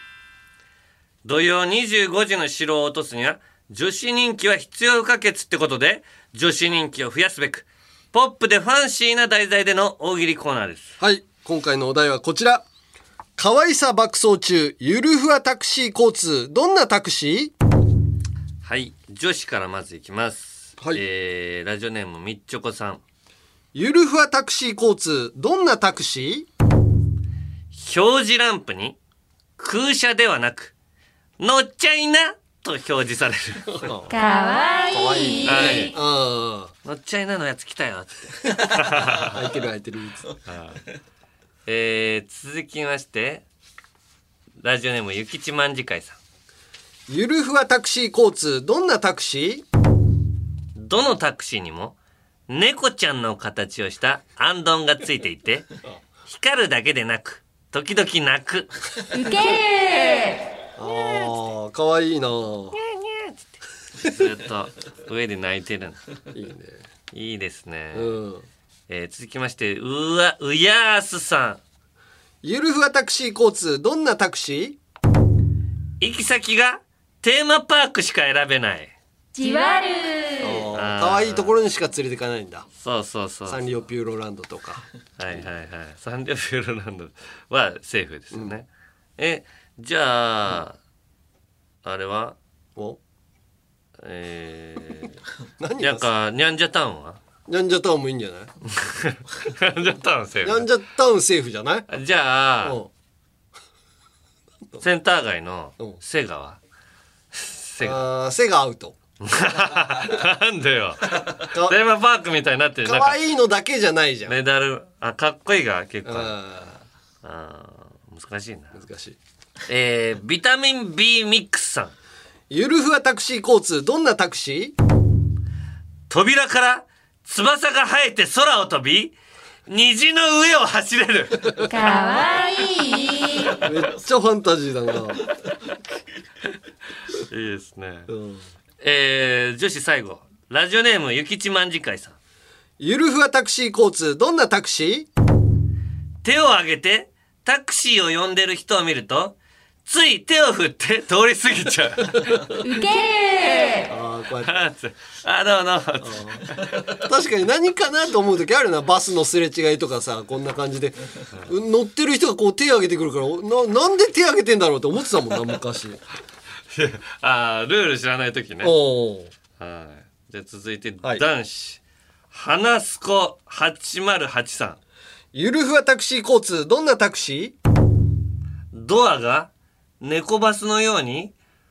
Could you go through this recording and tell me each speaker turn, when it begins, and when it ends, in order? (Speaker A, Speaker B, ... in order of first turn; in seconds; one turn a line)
Speaker A: 1.2-10.9
Speaker B: 11.0-12.6
Speaker B: 13.4-17.5
Speaker A: 18.6-23.0
Speaker B: 23.7-26.5
Speaker A: 27.7-29.0
Speaker A: 29.6-30.7
Speaker A: 31.4-33.9
Speaker B: 33.7-34.1
Speaker C: 34.1-35.9
Speaker B: 34.9-36.7
Speaker A: 35.5-35.9
Speaker A: 36.8-39.4
Speaker B: 39.1-40.4
Speaker A: 40.5-40.8
Speaker A: 41.6-43.4
Speaker A: 44.6-46.2
Speaker B: 47.1-49.6
Speaker A: 50.8-52.0
Speaker A: 52.5-55.7
Speaker A: 56.2-58.7
Speaker C: 59.1-60.5
Speaker B: 60.8-62.8
Speaker A: 62.7-66.0
Speaker B: 66.3-66.8
Speaker A: 67.1-68.1
Speaker B: 67.9-68.5
Speaker A: 68.9-71.6
Speaker B: 72.4-74.8
Speaker A: 76.0-78.9
Speaker C: 79.3-80.7
Speaker B: 80.4-82.7
Speaker A: 80.7-81.5
Speaker A: 82.8-83.6
Speaker B: 83.5-84.8
Speaker A: 85.2-88.7
Speaker A: 89.2-90.8
Speaker A: 91.8-92.4
Speaker A: 94.0-95.1
Speaker B: 95.6-96.1
Speaker A: 95.8-97.2
Speaker B: 97.5-98.5
Speaker A: 98.7-100.7
Speaker B: 100.4-101.9
Speaker A: 101.9-102.8
Speaker B: 102.6-102.9
Speaker A: 104.8-106.6
Speaker A: 107.3-108.0
Speaker B: 107.8-109.0
Speaker A: 109.2-113.2
Speaker B: 111.4-111.8
Speaker B: 112.8-114.3
Speaker A: 114.3-116.3
Speaker B: 116.0-116.8
Speaker A: 117.2-118.8
Speaker B: 118.7-119.2
Speaker A: 119.7-121.9
Speaker B: 122.5-124.8
Speaker A: 126.1-131.5
Speaker C: 131.6-133.6
Speaker B: 133.6-135.3
Speaker A: 137.1-138.1
Speaker B: 138.1-138.4
Speaker A: 138.8-142.2
Speaker B: 142.8-145.1
Speaker A: 146.2-152.2
Speaker C: 152.6-153.9
Speaker B: 153.9-154.6
Speaker A: 154.4-156.2
Speaker B: 156.0-166.0
Speaker A: 166.7-168.7
Speaker B: 168.6-169.3
Speaker A: 169.6-174.8
Speaker B: 175.3-177.6
Speaker A: 178.7-179.5
Speaker A: 180.0-181.3